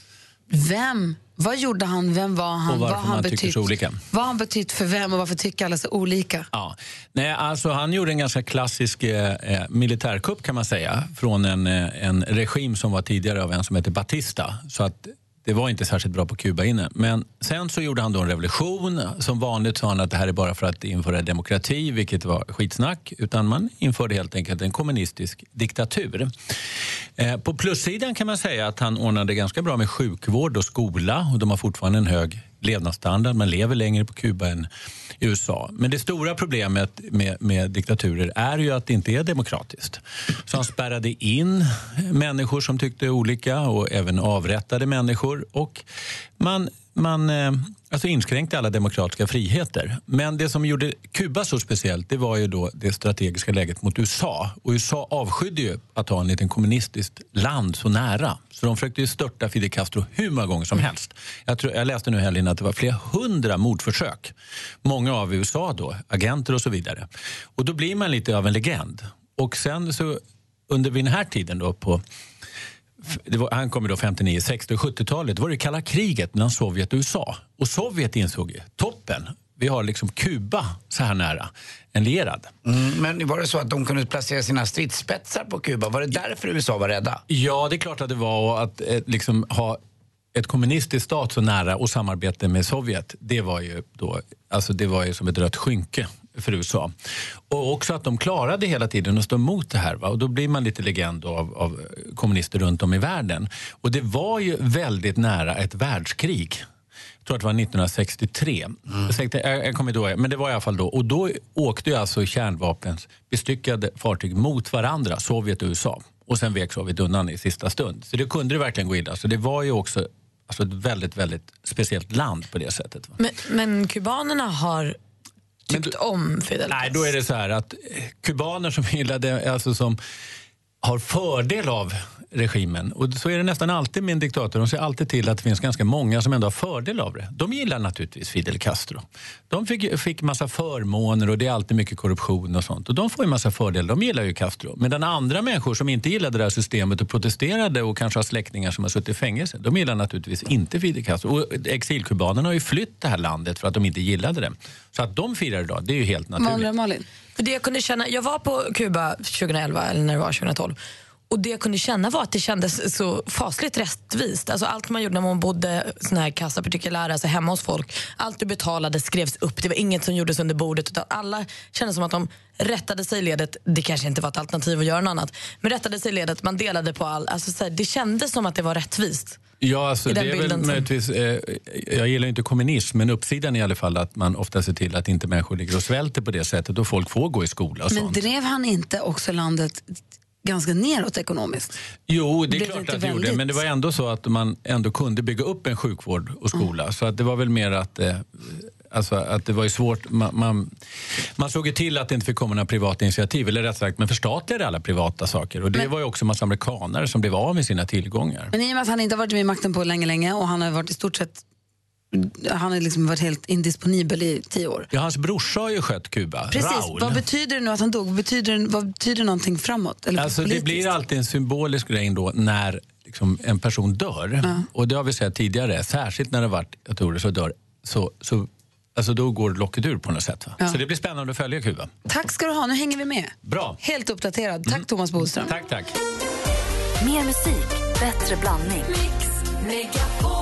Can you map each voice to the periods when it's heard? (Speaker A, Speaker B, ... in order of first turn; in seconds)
Speaker A: 0.5-6.5, 156.4-157.0, 187.9-191.7, 192.5-193.6, 208.5-211.4, 212.1-214.9, 216.5-220.9, 232.1-235.5
Speaker B: 2.7-4.0, 6.5-26.3, 27.2-34.7, 35.2-45.8, 46.4-72.0, 73.0-82.5, 87.3-89.8, 90.3-96.9, 97.5-106.6, 107.2-123.2, 125.7-125.9, 126.7-130.0, 130.8-156.7, 179.6-188.2, 192.1-200.7, 201.4-208.5, 214.9-217.2, 220.2-231.9, 233.4-233.8, 234.7-235.9
Speaker C: 82.6-87.2
Speaker D: 123.2-125.0, 125.7-127.1, 157.3-160.8, 161.3-179.4, 180.1-180.9
Speaker E: 237.0-239.1